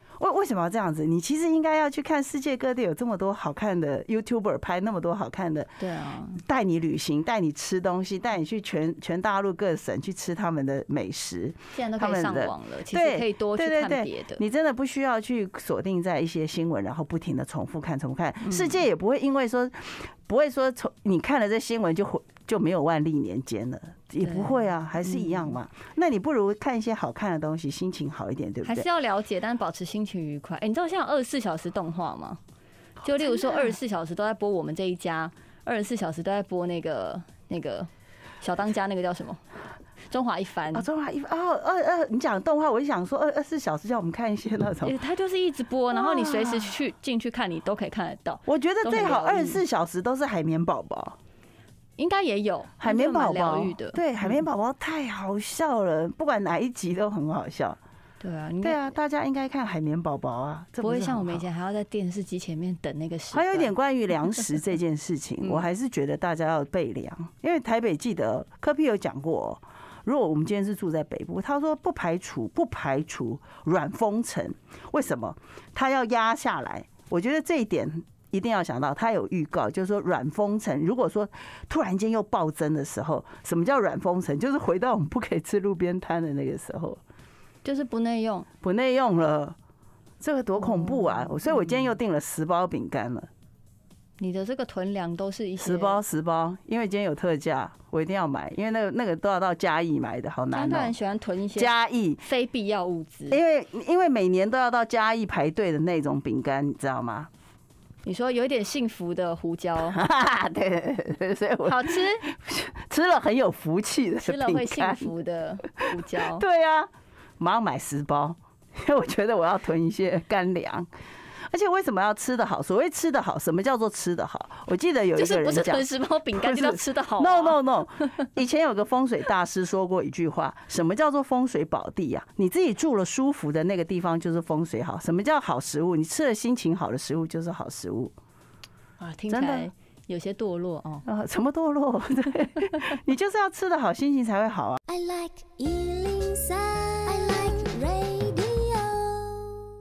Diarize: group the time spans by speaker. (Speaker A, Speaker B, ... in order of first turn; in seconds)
Speaker A: 0.2-5.8, 6.3-28.9, 33.2-33.6, 40.7-44.9, 45.9-46.7, 48.5-51.2, 52.8-57.8, 58.6-61.4, 63.3-87.0, 88.6-89.5, 90.2-93.3, 95.6-100.9, 101.5-102.2, 103.3-107.3, 109.9-115.1, 116.1-120.9, 121.5-138.1, 139.3-139.7, 141.0-144.8
Speaker B: 5.8-6.4, 11.7-14.4, 18.5-18.7, 24.2-25.5, 28.6-32.4, 33.0-37.9, 38.4-39.4, 40.1-40.9, 44.8-49.6, 52.0-54.4, 58.2-58.9, 60.8-63.7, 87.6-88.5, 90.6-91.3, 94.2-96.0, 100.5-103.4, 108.0-110.0, 111.6-112.2, 114.2-116.4, 125.2-127.6, 139.0-141.0
Speaker C: 144.9-149.6